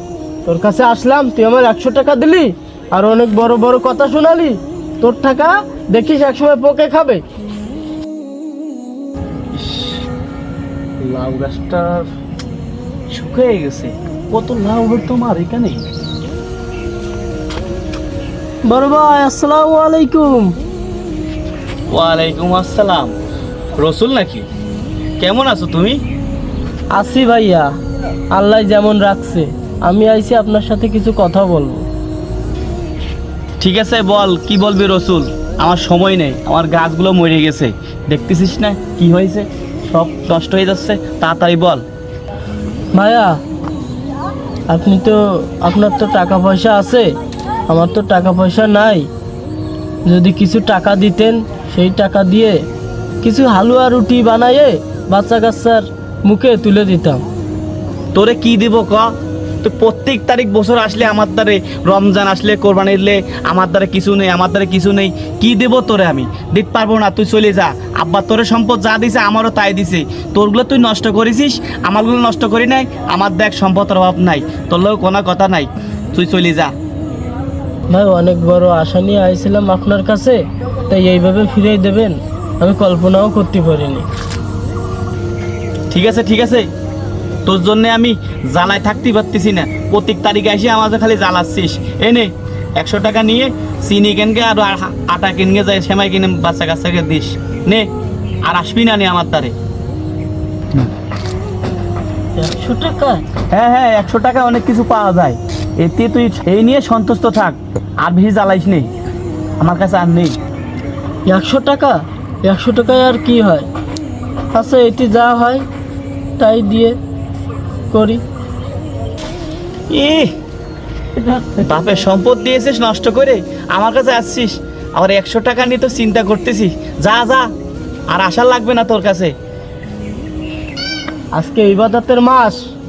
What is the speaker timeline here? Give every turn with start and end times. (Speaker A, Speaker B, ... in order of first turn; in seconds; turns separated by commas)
Speaker A: 0.4-7.2, Speaker B: 9.5-10.1, Speaker B: 11.0-12.1, Speaker B: 13.1-15.8, Speaker A: 18.7-20.5, Speaker B: 21.9-23.1, Speaker B: 23.8-24.4, Speaker B: 25.2-26.0, Speaker A: 26.9-27.7, Speaker A: 28.3-31.9, Speaker B: 33.6-41.8, Speaker A: 42.9-43.3, Speaker A: 44.7-47.1, Speaker A: 47.7-49.1, Speaker A: 50.0-52.6, Speaker A: 53.2-57.2, Speaker B: 58.1-59.1, Speaker B: 59.6-76.7, Speaker A: 77.9-84.1, Speaker B: 85.9-86.7, Speaker B: 87.5-97.9, Speaker B: 98.4-99.5, Speaker A: 102.4-103.2, Speaker B: 103.5-108.9, Speaker B: 109.6-110.4, Speaker A: 111.3-113.7, Speaker A: 114.5-115.6, Speaker A: 116.4-117.0, Speaker A: 117.9-118.2, Speaker B: 119.9-120.3, Speaker B: 121.5-127.5, Speaker B: 128.1-129.3, Speaker A: 131.3-132.6